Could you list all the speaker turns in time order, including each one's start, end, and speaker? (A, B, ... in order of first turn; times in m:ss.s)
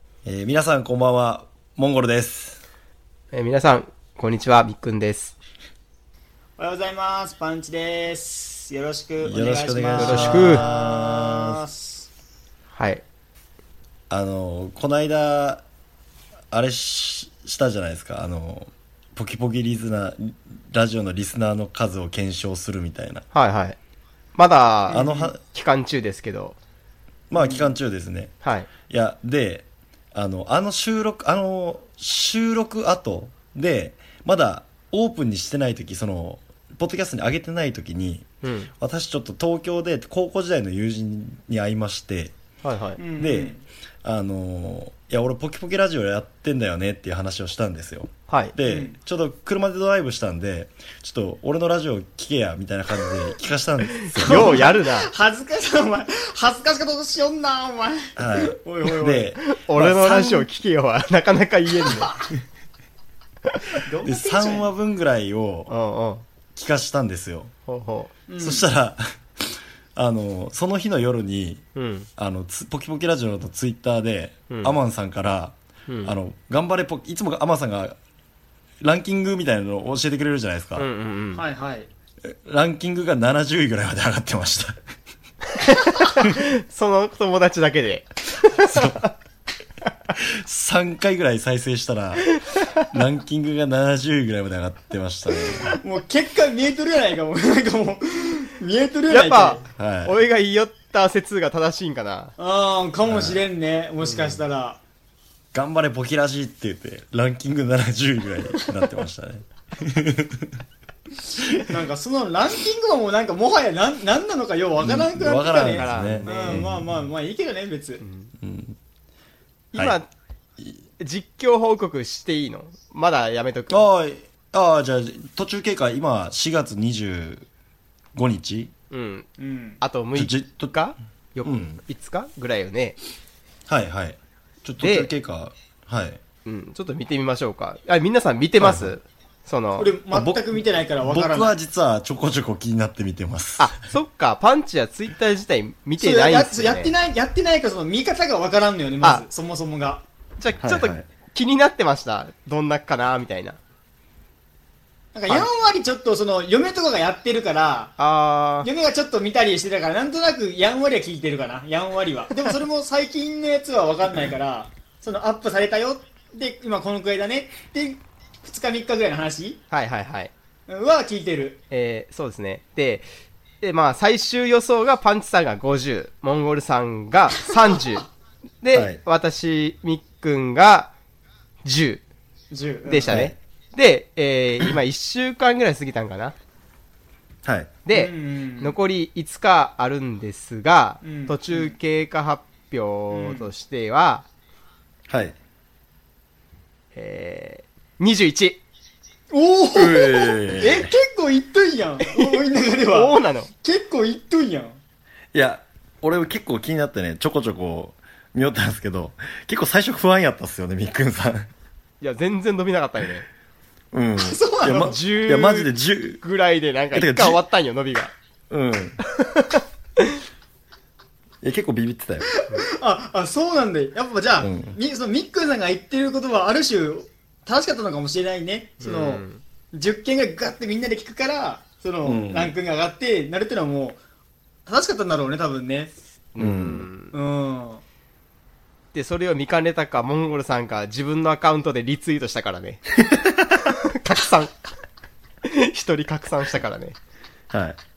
0:00.2-0:02.6 A
0:03.3-0:05.3 B
0:06.6-0:12.1 C
0:09.2-0:11.6 A
0:10.0-0:10.6 B
0:12.7-0:13.0 B
0:14.1-0:15.6 A
0:16.5-0:23.2 A
0:23.3-0:23.8 B
0:24.3-0:26.6 B
0:24.9-0:25.3 C
0:24.9-0:25.4 A
0:27.3-0:28.3 A
0:27.4-0:27.7 C
0:28.4-0:28.7 B
0:28.9-0:38.3 A
0:38.4-0:38.7 B
0:38.8-0:42.3 A
0:42.6-0:43.0 B
0:43.0-0:43.6 C
0:43.2-0:54.7 A
0:48.3-0:48.5 B
0:48.6-0:48.9 C
0:54.1-0:55.1 B
0:54.2-0:59.3 C
0:58.2-1:00.5 A
0:59.4-1:02.2 B
1:03.8-1:04.7 C
1:04.0-1:05.7 A
1:05.7-1:06.2 B
1:06.5-1:07.5 A
1:07.7-1:08.1 B
1:08.3-1:08.6 C
1:08.4-1:11.6 A
1:11.7-1:12.1 B
1:12.2-1:18.0 A
1:14.5-1:14.8 B
1:15.9-1:16.1 B
1:18.8-1:20.9 A
1:20.8-1:21.4 B
1:21.3-1:21.9 C
1:22.3-1:24.8 A
1:25.6-1:29.1 B
1:28.5-1:29.1 A
1:30.2-1:32.4 A
1:32.9-1:35.7 A
1:35.8-1:39.6 C
1:39.1-1:42.3 B
1:39.8-1:40.2 A
1:42.4-1:44.8 C
1:43.0-1:43.4 A
1:44.0-1:44.4 B
1:45.5-1:50.5 A
1:51.7-1:58.0 C
1:54.8-1:56.9 A
1:55.7-1:56.7 B
1:58.0-1:58.3 B
1:58.4-1:58.8 A
1:59.7-2:00.1 B
2:01.0-2:03.8 B
2:03.7-2:07.5 A
2:08.1-2:08.7 A
2:08.9-2:09.3 B
2:09.4-2:09.8 C
2:09.8-2:13.0 B
2:10.1-2:10.8 A
2:11.4-2:11.8 A
2:13.7-2:16.2 A
2:14.8-2:15.1 B
2:16.4-2:19.9 B
2:18.6-2:19.0 A
2:19.8-2:21.5 C
2:20.1-2:23.7 A
2:23.6-2:26.9 B
2:26.0-2:30.0 C
2:30.4-2:33.6 B
2:30.6-2:31.0 A
2:35.1-2:38.0 C
2:38.0-2:38.7 B
2:38.6-2:49.6 C
2:49.7-2:50.3 B
2:50.7-2:51.6 C
2:51.7-2:53.1 B
2:53.6-2:58.1 B
2:58.6-3:00.9 B
2:58.7-2:59.0 A
3:01.6-3:02.0 B
3:02.5-3:03.3 C
3:02.8-3:06.3 B
3:03.1-3:03.4 A
3:07.4-3:07.8 A
3:07.8-3:14.2 B
3:07.9-3:08.8 C
3:11.0-3:11.8 C
3:13.1-3:13.5 C
3:15.1-3:15.4 A
3:16.9-3:18.6 B
3:19.3-3:24.8 C
3:19.7-3:20.9 A
3:22.0-3:23.5 B
3:25.3-3:31.5 A
3:32.0-3:33.3 B
3:33.9-3:36.2 A
3:34.2-3:35.0 C
3:34.8-3:38.1 B
3:36.9-3:37.4 A
3:38.5-3:39.0 A
3:39.2-3:39.6 B
3:41.4-3:42.3 A
3:42.5-3:54.0 C
3:44.4-3:44.7 A
3:48.8-3:49.4 B
3:52.0-3:52.5 A
3:54.6-3:55.9 C
3:56.3-3:57.2 B
3:56.4-3:56.9 A
3:57.1-3:57.8 C
3:58.9-4:02.8 B
4:03.0-4:03.7 A
4:03.6-4:04.5 B
4:05.4-4:07.0 B
4:07.5-4:07.8 A